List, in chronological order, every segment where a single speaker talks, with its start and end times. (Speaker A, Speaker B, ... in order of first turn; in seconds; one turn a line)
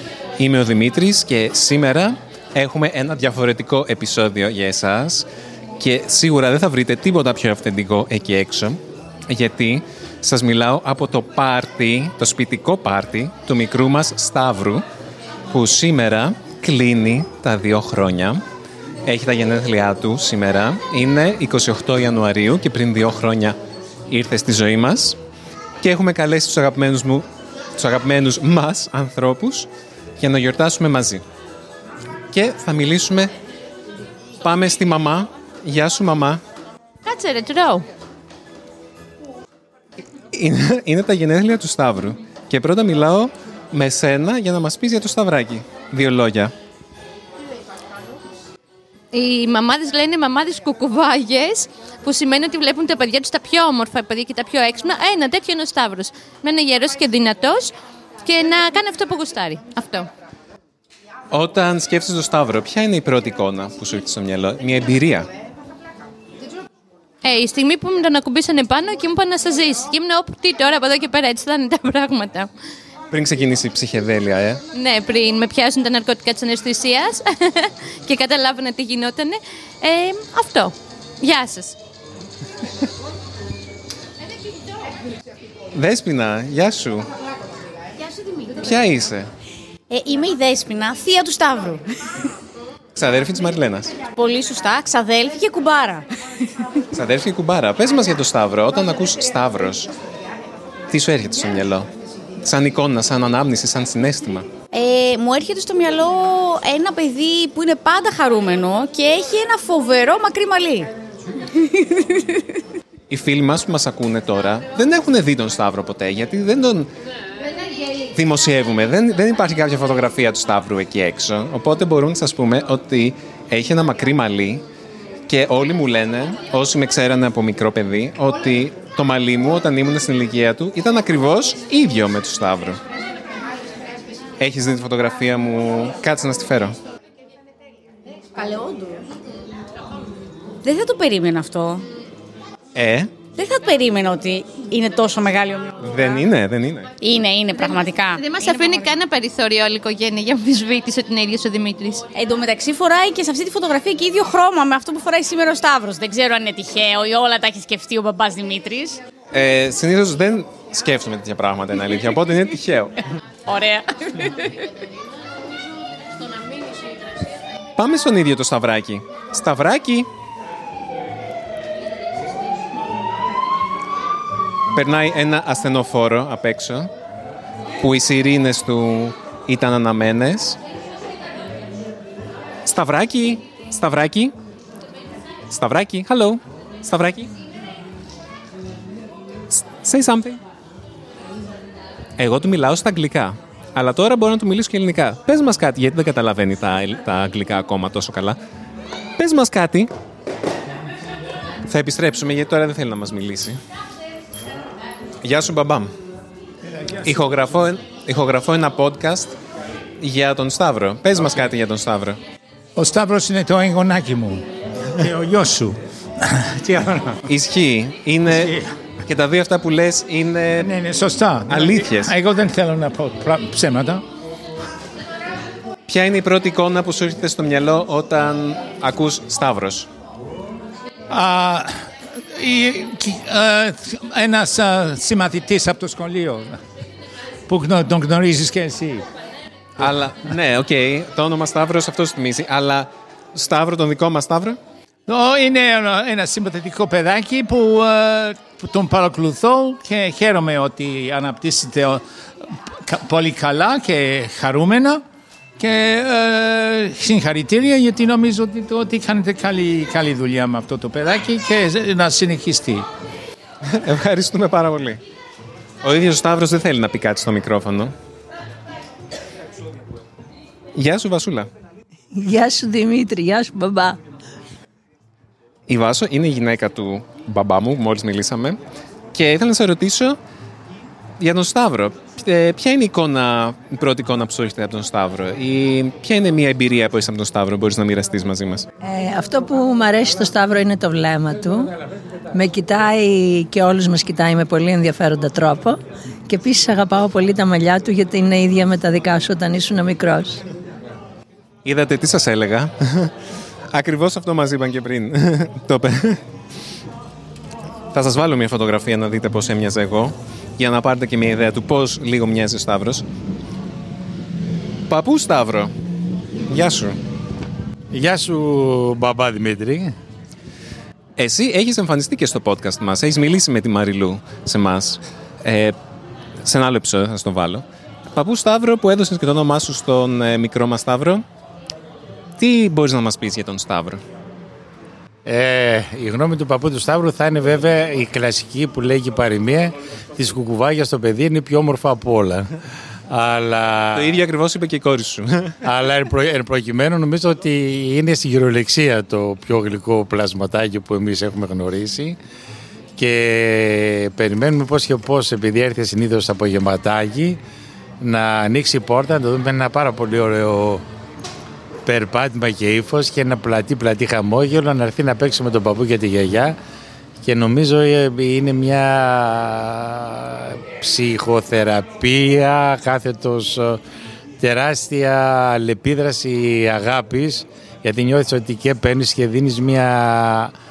Speaker A: 0.4-5.3
Speaker A: 5.8-14.8
Speaker A: 15.5-18.4
Speaker A: 19.1-23.6
Speaker A: 24.1-25.2
Speaker A: 25.8-27.2
Speaker A: 27.8-29.7
Speaker A: 30.2-31.2
Speaker A: 32.3-33.3
Speaker A: 34.4-36.4
Speaker B: 37.0-37.9
Speaker A: 40.3-46.5
Speaker B: 49.1-57.7
Speaker B: 58.2-60.1
Speaker A: 61.3-65.3
Speaker B: 67.2-72.5
Speaker A: 73.1-74.6
Speaker B: 74.7-81.8
Speaker A: 85.7-87.1
Speaker A: 88.6-89.3
Speaker C: 89.9-91.8
Speaker A: 93.0-93.9
Speaker C: 94.1-96.1
Speaker A: 96.9-99.9
Speaker A: 100.9-101.9
Speaker A: 102.4-104.5
Speaker C: 104.7-110.9
Speaker C: 111.6-112.3
Speaker A: 113.1-116.9
Speaker A: 118.1-124.6
Speaker A: 125.3-132.8
Speaker A: 134.4-136.8
Speaker C: 140.6-141.8
Speaker A: 142.8-143.1
Speaker C: 143.3-145.8
Speaker A: 145.8-146.9
Speaker C: 147.0-148.8
Speaker B: 147.6-152.0
Speaker C: 152.1-159.0
Speaker A: 159.3-163.0
Speaker C: 163.5-164.6
Speaker A: 167.8-170.1
Speaker A: 174.7-176.9
Speaker A: 177.8-180.6
Speaker A: 182.7-184.3
Speaker A: 185.5-187.3
Speaker A: 189.5-190.4
Speaker A: 192.2-198.4
Speaker A: 199.2-199.9
Speaker A: 201.7-203.6
Speaker A: 205.2-205.9
Speaker A: 207.0-209.3
Speaker A: 210.0-212.2
Speaker D: 212.8-214.4
Speaker D: 215.0-217.2
Speaker A: 217.3-218.5
Speaker D: 218.3-218.7
Speaker A: 219.1-220.7
Speaker D: 220.6-224.0
Speaker A: 221.5-222.1
Speaker A: 225.9-229.9
Speaker D: 231.1-236.6
Speaker D: 237.5-239.1
Speaker A: 239.8-244.6
Speaker D: 245.1-252.0
Speaker D: 252.9-255.0
Speaker D: 255.6-262.9
Speaker A: 263.7-265.0
Speaker A: 265.8-267.9
Speaker A: 270.8-271.5
Speaker E: 272.1-274.0
Speaker A: 275.7-278.6
Speaker A: 279.1-280.2
Speaker A: 281.2-288.7
Speaker E: 288.8-291.7
Speaker E: 292.3-300.4
Speaker A: 301.6-303.1
Speaker A: 303.7-306.2
Speaker A: 307.9-313.0
Speaker A: 314.9-315.7
Speaker A: 316.5-317.0
Speaker F: 317.9-319.9
Speaker A: 321.2-325.8
Speaker A: 326.4-331.2
Speaker A: 332.4-334.0
Speaker F: 335.2-342.5
Speaker F: 343.1-344.1
Speaker A: 343.9-345.6
Speaker F: 345.6-352.2
Speaker F: 353.0-357.4
Speaker F: 358.0-360.8
Speaker F: 361.9-366.6
Speaker F: 367.2-373.8
Speaker F: 374.4-380.5